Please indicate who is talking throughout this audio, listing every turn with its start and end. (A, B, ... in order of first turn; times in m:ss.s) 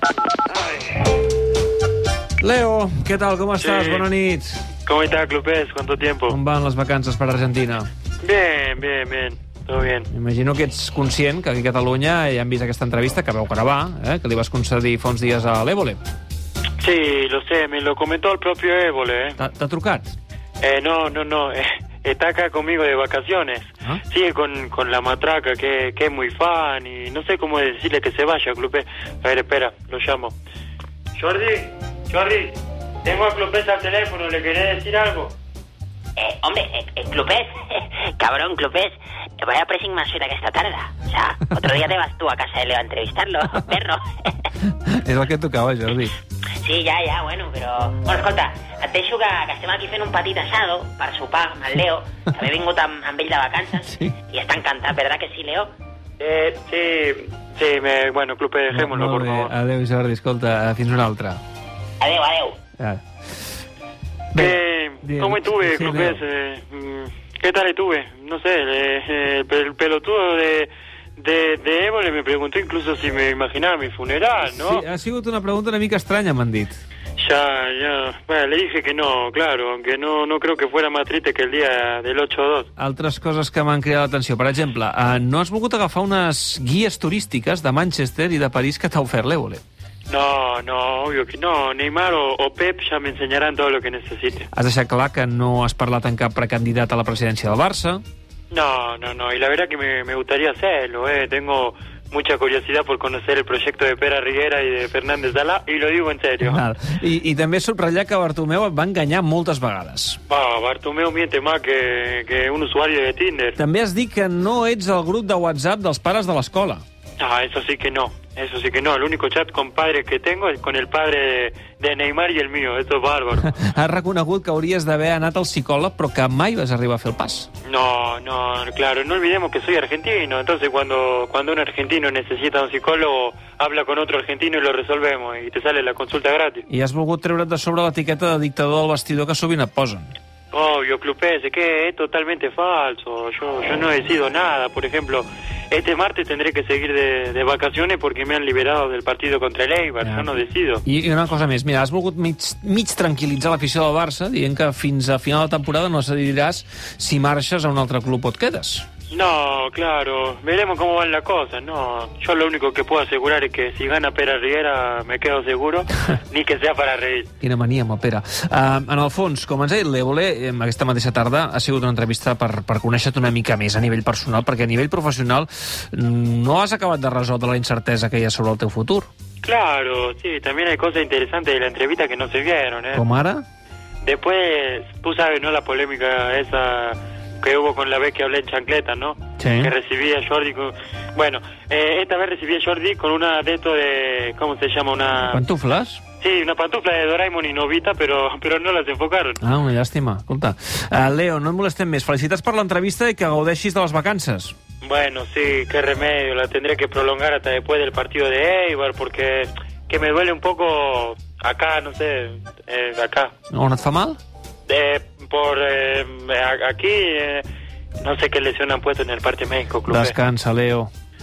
0:02.4-0:04.6 A
0:03.6-0:04.1 B
0:04.8-0:06.4 B
0:06.3-0:07.9 A
0:08.2-0:10.1 B
0:10.1-0:16.0 A
0:16.8-0:19.4 B
0:19.4-0:20.2 A
0:20.6-0:30.3 B
0:31.2-0:35.3 B
0:36.2-0:44.3 C
0:44.6-0:46.2 A
0:46.6-0:55.7 C
0:53.8-0:54.2 A
0:56.2-0:59.5 B
0:58.7-1:01.4 A
1:02.0-1:02.6 C
1:02.8-1:03.0 A
1:04.3-1:06.2 A
1:04.3-1:14.8 B
1:14.4-1:16.8 A
1:17.2-1:22.7 B
1:22.8-1:29.6 A
1:30.1-1:34.5 B
1:34.5-1:38.0 A
1:38.5-1:46.6 B
1:46.4-1:50.2 A
1:50.3-1:53.6 B
1:53.6-1:56.8 A
1:57.2-2:03.5 B
2:03.4-2:07.5 A
2:07.7-2:16.7 B
2:16.7-2:20.1 A
2:20.5-2:30.8 B
2:30.0-2:30.3 A
2:30.8-2:38.9 A
2:39.1-2:47.3 B
2:47.4-2:59.1 A
2:59.4-3:03.0 B
3:02.9-3:03.4 A
3:04.0-3:15.4 B
3:09.4-3:09.7 A
3:15.3-3:16.0 A
3:16.2-3:19.4 B
3:19.4-3:24.6 A
3:24.8-3:33.3 B
3:33.5-3:34.2 A
3:34.7-3:37.4 B
3:38.0-3:40.2 B
3:39.9-3:40.9 A